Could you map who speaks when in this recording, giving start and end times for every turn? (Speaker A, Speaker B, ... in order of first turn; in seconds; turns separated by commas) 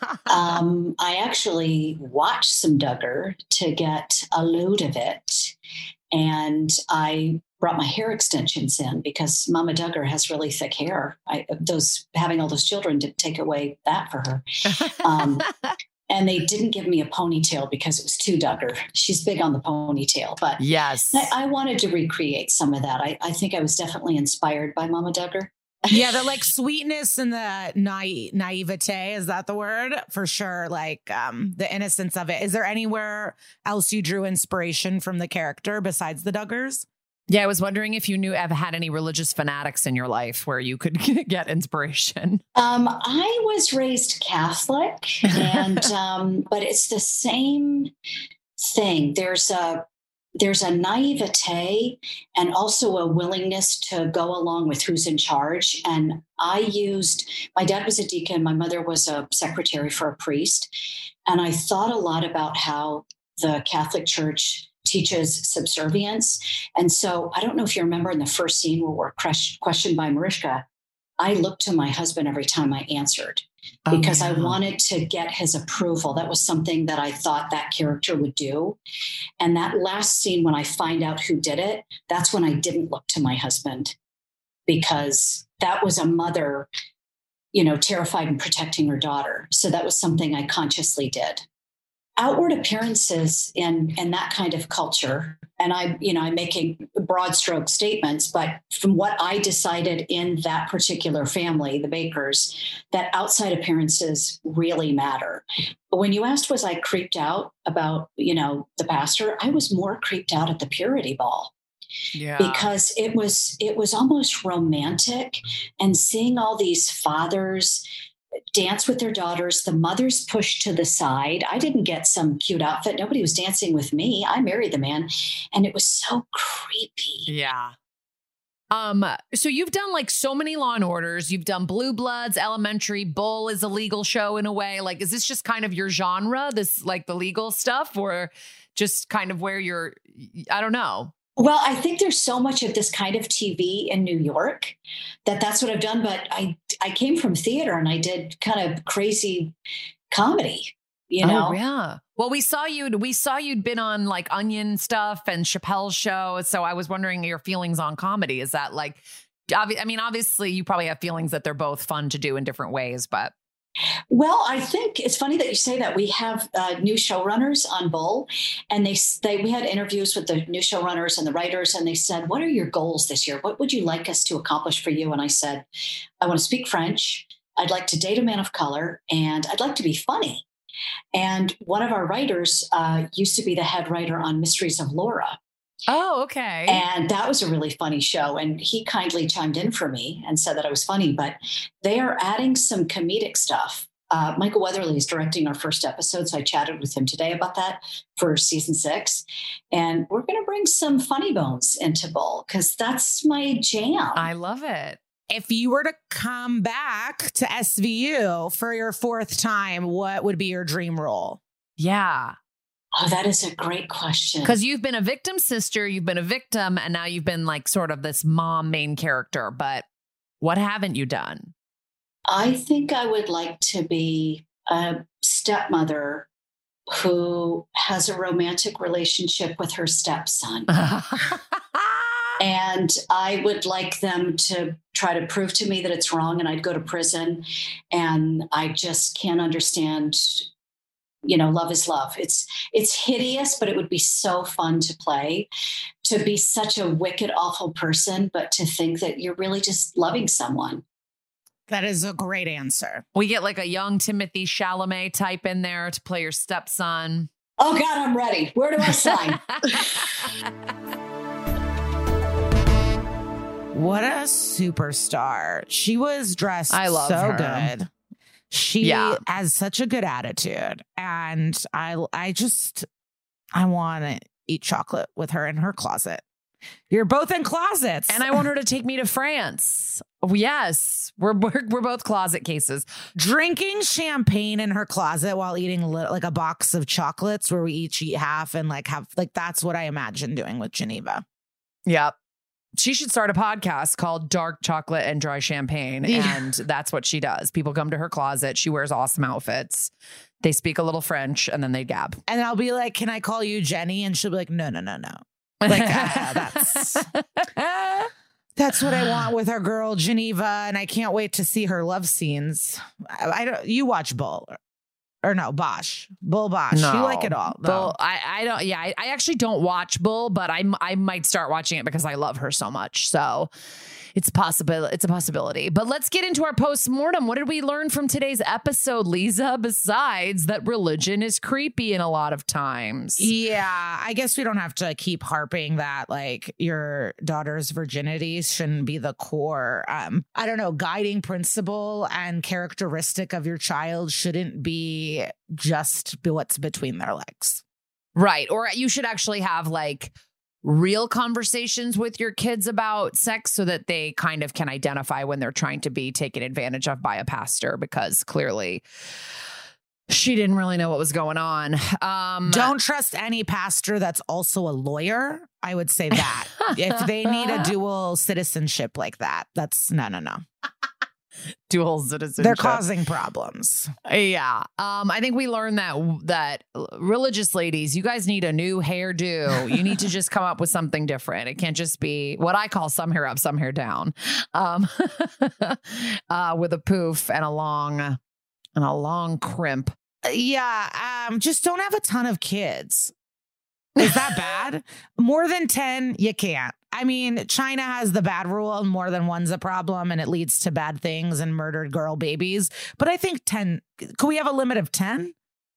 Speaker A: 0.3-5.5, Speaker A: 6.1-15.5, Speaker B: 14.8-15.7, Speaker A: 16.1-26.4, Speaker B: 20.6-21.3, Speaker C: 25.9-36.9, Speaker B: 37.3-42.4, Speaker A: 42.5-47.9, Speaker A: 48.6-49.9, Speaker A: 50.4-60.7, Speaker A: 61.3-70.6, Speaker A: 71.2-78.8, Speaker B: 73.9-74.5, Speaker A: 79.4-84.0, Speaker A: 84.7-86.7, Speaker A: 87.5-91.4, Speaker A: 92.2-111.5, Speaker B: 112.1-112.7, Speaker A: 112.4-117.8, Speaker A: 118.5-127.3, Speaker B: 127.2-127.8, Speaker B: 128.7-141.1, Speaker A: 141.4-149.5, Speaker A: 150.1-151.6, Speaker B: 151.2-163.3, Speaker A: 164.1-175.7, Speaker A: 176.2-180.4, Speaker A: 181.1-185.4, Speaker B: 185.9-186.8, Speaker A: 186.7-204.3, Speaker B: 204.2-205.0, Speaker C: 205.3-211.4, Speaker B: 211.8-212.3, Speaker A: 212.9-214.6, Speaker B: 214.4-219.8, Speaker B: 220.4-221.5, Speaker A: 222.3-226.3, Speaker A: 226.9-230.7, Speaker B: 230.7-232.0, Speaker A: 232.4-240.5, Speaker A: 241.2-245.5, Speaker A: 246.0-250.8, Speaker C: 251.7-253.0, Speaker B: 253.1-257.3, Speaker A: 257.6-260.0, Speaker B: 258.9-260.3, Speaker C: 263.7-267.9, Speaker B: 266.7-267.7, Speaker C: 268.5-272.9, Speaker B: 268.8-269.2, Speaker C: 273.5-276.2, Speaker C: 276.9-278.4, Speaker B: 278.1-282.9, Speaker C: 283.1-291.2, Speaker B: 291.9-292.1, Speaker B: 292.8-299.9, Speaker C: 296.1-296.5, Speaker B: 300.4-302.2, Speaker C: 302.3-307.1, Speaker B: 305.6-308.1, Speaker C: 308.6-314.6, Speaker C: 315.2-317.9, Speaker B: 316.7-323.5, Speaker B: 324.1-333.3, Speaker C: 333.2-347.6, Speaker B: 348.1-358.8, Speaker B: 360.1-362.7, Speaker C: 362.5-370.4, Speaker B: 371.7-372.8, Speaker C: 372.4-373.9, Speaker B: 374.1-388.2, Speaker B: 388.8-389.9, Speaker C: 390.2-393.1, Speaker B: 394.0-394.4, Speaker C: 394.0-405.3